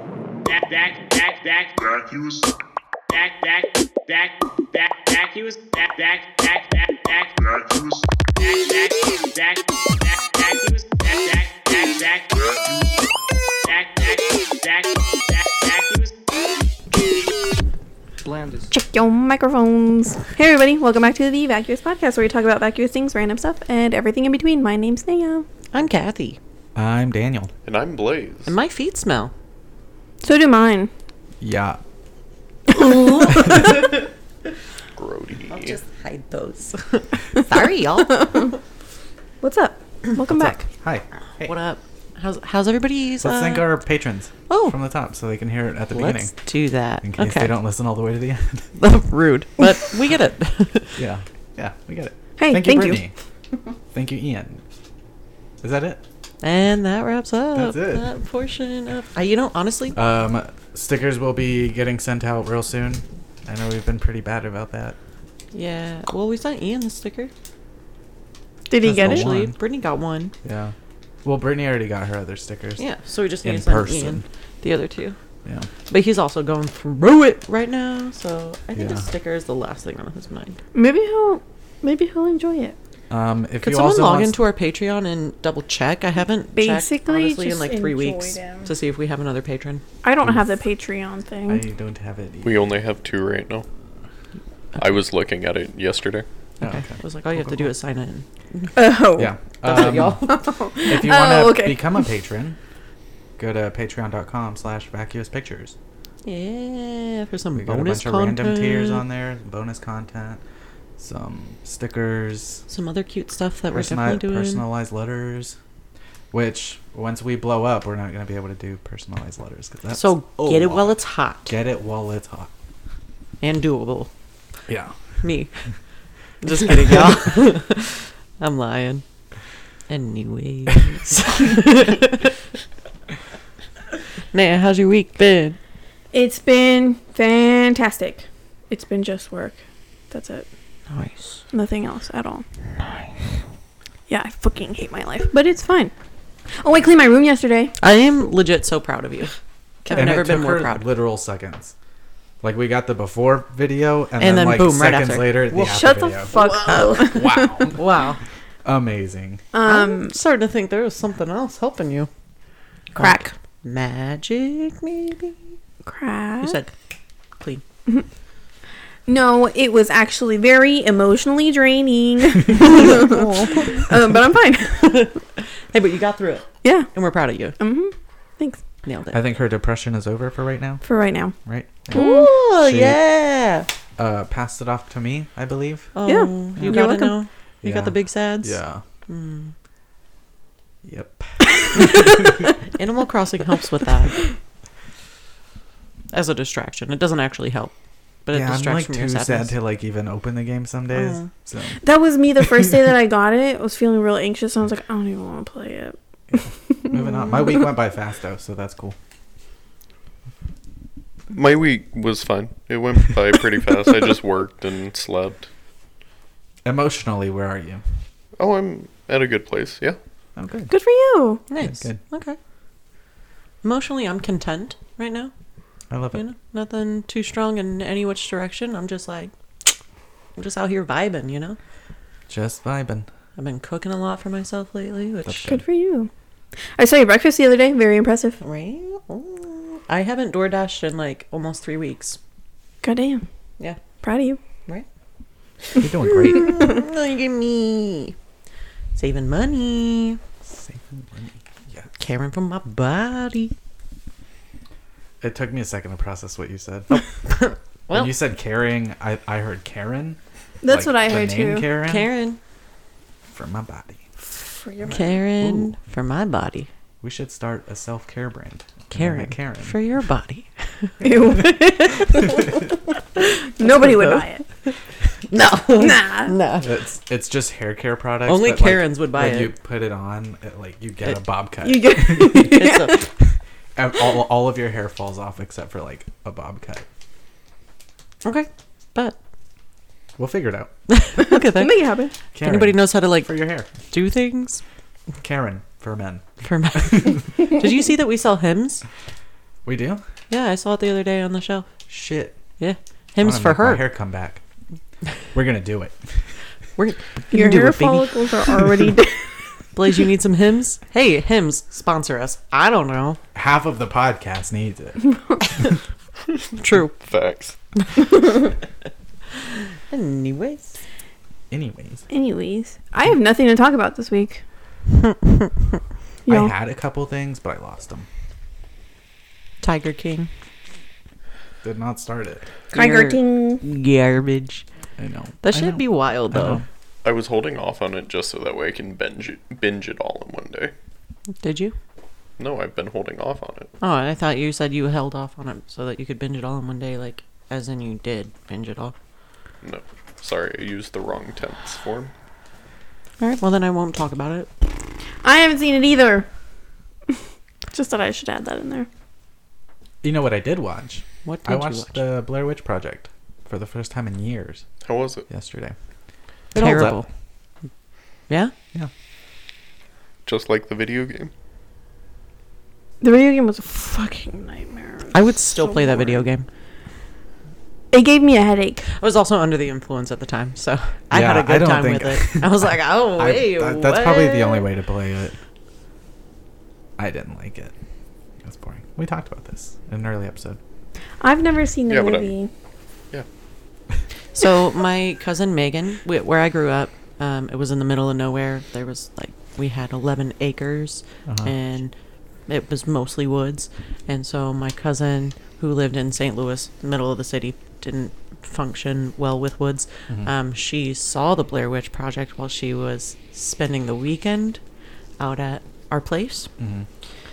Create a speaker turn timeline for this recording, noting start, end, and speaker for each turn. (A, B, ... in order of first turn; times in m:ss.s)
0:00.4-0:01.8 A
0:01.8-0:02.5 B
0:03.1-0:07.4 A
0:07.4-0:08.2 B
0:08.4-0:12.4 A
0:12.3-0:13.1 B
0:13.6-0:16.1 A
0:18.7-0:25.4 C
0:25.7-0:26.4 D
0:26.7-0:27.5 E
0:27.6-0:28.5 F
0:28.5-0:29.3 D
0:30.2-0:30.9 C
0:31.4-0:31.8 E
0:32.7-0:33.7 C
0:32.8-0:33.7 D
0:34.9-0:35.8 F
0:35.5-0:38.6 D
0:39.4-0:40.7 C
0:40.2-0:41.5 E
0:41.4-0:43.8 D
0:43.2-0:46.3 E
0:44.5-0:44.8 D
0:45.9-0:47.6 D
0:47.0-0:48.7 E
0:48.8-0:51.0 D
0:51.0-0:53.1 E
0:52.4-0:53.0 C
0:53.9-0:54.6 E
0:55.6-0:56.0 E
0:56.4-1:00.0 D
0:57.5-0:58.1 E
1:00.0-1:05.0 E
1:05.5-1:07.3 D
1:08.7-1:09.3 C
1:08.8-1:09.6 E
1:08.9-1:10.3 D
1:10.4-1:12.8 E
1:12.8-1:15.2 D
1:13.4-1:14.2 E
1:15.9-1:20.6 D
1:18.7-1:19.0 E
1:20.7-1:22.8 C
1:23.1-1:24.4 E
1:23.6-1:29.8 D
1:26.5-1:28.7 C
1:30.0-1:31.6 C
1:30.2-1:30.5 E
1:31.5-1:32.6 E
1:32.4-1:33.6 F
1:34.8-1:36.3 F
1:36.6-1:38.8 D
1:36.6-1:37.7 E
1:38.8-1:42.1 C
1:39.2-1:40.2 E
1:39.6-1:40.4 D
1:40.9-1:42.6 E
1:43.4-1:45.7 E
1:46.2-1:49.0 D
1:47.5-1:50.4 E
1:51.0-1:52.6 E
1:52.7-1:54.7 D
1:53.7-1:55.6 E
1:56.3-2:02.5 E
1:59.9-2:01.6 D
2:03.4-2:04.1 D
2:04.7-2:05.0 E
2:05.2-2:05.5 D
2:06.4-2:09.0 D
2:09.9-2:12.3 D
2:14.3-2:15.6 D
2:16.1-2:20.5 C
2:20.9-2:21.4 D
2:21.5-2:22.4 C
2:24.1-2:25.9 C
2:26.6-2:27.7 C
2:27.8-2:29.3 D
2:29.8-2:30.1 C
2:29.9-2:30.9 D
2:29.9-2:31.7 E
2:32.4-2:37.8 E
2:34.2-2:35.5 D
2:35.5-2:37.7 C
2:36.3-2:38.2 D
2:38.6-2:39.4 E
2:39.5-2:40.2 C
2:39.6-2:42.1 D
2:43.0-2:43.3 C
2:43.0-2:45.5 D
2:45.8-2:46.6 C
2:46.4-2:46.7 D
2:49.1-2:55.0 C
2:52.5-2:54.0 D
2:54.8-2:57.6 D
2:56.6-2:56.9 C
2:57.6-2:58.6 C
2:58.8-2:59.2 D
2:59.1-3:00.8 E
3:00.8-3:01.3 C
3:01.4-3:03.0 E
3:01.9-3:02.3 C
3:01.9-3:03.7 D
3:04.0-3:05.9 E
3:05.9-3:09.5 D
3:06.0-3:07.2 C
3:07.6-3:08.8 E
3:10.8-3:12.5 E
3:11.7-3:14.2 D
3:16.1-3:17.7 D
3:18.2-3:19.6 D
3:18.3-3:21.8 E
3:20.9-3:21.3 D
3:21.8-3:26.0 C
3:22.4-3:22.8 E
3:26.3-3:29.0 E
3:26.7-3:27.0 C
3:31.3-3:35.5 F
3:36.6-3:37.8 E
3:38.4-3:40.0 F
3:40.4-3:40.7 E
3:40.7-3:41.4 C
3:41.5-3:42.4 D
3:41.6-3:42.0 E
3:43.6-3:45.3 D
3:45.9-3:46.2 E
3:46.1-3:49.7 D
3:50.4-3:51.6 D
3:52.3-3:53.1 E
3:53.4-3:55.5 D
3:55.2-3:55.6 E
3:55.4-3:56.1 C
3:56.8-3:58.4 C
3:58.4-4:02.2 D
4:02.8-4:03.2 C
4:04.0-4:04.4 C
4:05.8-4:06.6 E
4:05.8-4:08.1 D
4:08.9-4:10.2 D
4:10.4-4:11.9 E
4:12.0-4:13.5 D
4:15.2-4:17.0 E
4:16.9-4:18.1 D
4:17.9-4:22.1 E
4:20.6-4:21.7 C
4:21.8-4:22.4 D
4:23.3-4:24.0 E
4:24.3-4:25.2 C
4:24.9-4:26.7 D
4:25.4-4:25.8 E
4:27.0-4:29.8 E
4:28.9-4:31.0 D
4:31.0-4:31.4 E
4:31.0-4:34.4 C
4:33.6-4:34.2 D
4:35.3-4:36.7 D
4:35.7-4:36.4 C
4:36.6-4:43.0 E
4:38.2-4:39.5 D
4:41.6-4:43.1 C
4:42.2-4:43.0 D
4:43.8-4:46.8 E
4:48.2-4:49.2 D
4:50.2-4:50.7 E
4:50.9-4:51.8 D
4:51.2-4:52.1 C
4:52.3-4:53.7 E
4:52.4-4:54.6 D
4:55.2-4:57.2 E
4:56.4-4:58.8 D
4:59.6-5:00.0 E
5:00.3-5:01.7 D
5:01.9-5:02.4 E
5:02.6-5:03.9 D
5:03.2-5:04.4 E
5:05.3-5:06.1 E
5:06.8-5:08.7 D
5:07.3-5:09.3 C
5:09.7-5:13.2 D
5:13.3-5:15.8 E
5:16.6-5:16.9 D
5:16.9-5:17.6 F
5:19.9-5:20.8 D
5:21.5-5:22.0 E
5:22.1-5:24.4 C
5:26.2-5:26.5 C
5:26.3-5:28.1 E
5:29.6-5:30.3 D
5:31.6-5:32.4 E
5:32.7-5:34.6 D
5:32.7-5:33.6 C
5:35.0-5:36.6 E
5:35.4-5:36.6 D
5:37.0-5:40.7 F
5:41.4-5:41.7 D
5:42.4-5:43.7 F
5:43.8-5:48.9 D
5:49.6-5:52.1 F
5:53.2-5:54.5 D
5:55.2-5:56.3 C
5:57.7-5:58.9 C
6:00.0-6:04.6 E
6:01.2-6:02.0 D
6:04.8-6:05.2 F
6:05.3-6:05.7 E
6:06.5-6:07.0 E
6:06.5-6:07.1 D
6:10.2-6:11.3 F
6:13.0-6:16.2 C
6:15.1-6:16.4 D
6:17.9-6:18.8 C
6:18.9-6:24.6 D
6:21.1-6:25.4 E
6:27.0-6:27.7 E
6:28.4-6:30.6 E
6:31.2-6:32.5 C
6:31.9-6:32.3 F
6:34.3-6:41.9 D
6:41.2-6:41.5 E
6:42.5-6:54.6 D
6:55.2-6:56.5 D
6:56.6-6:56.9 E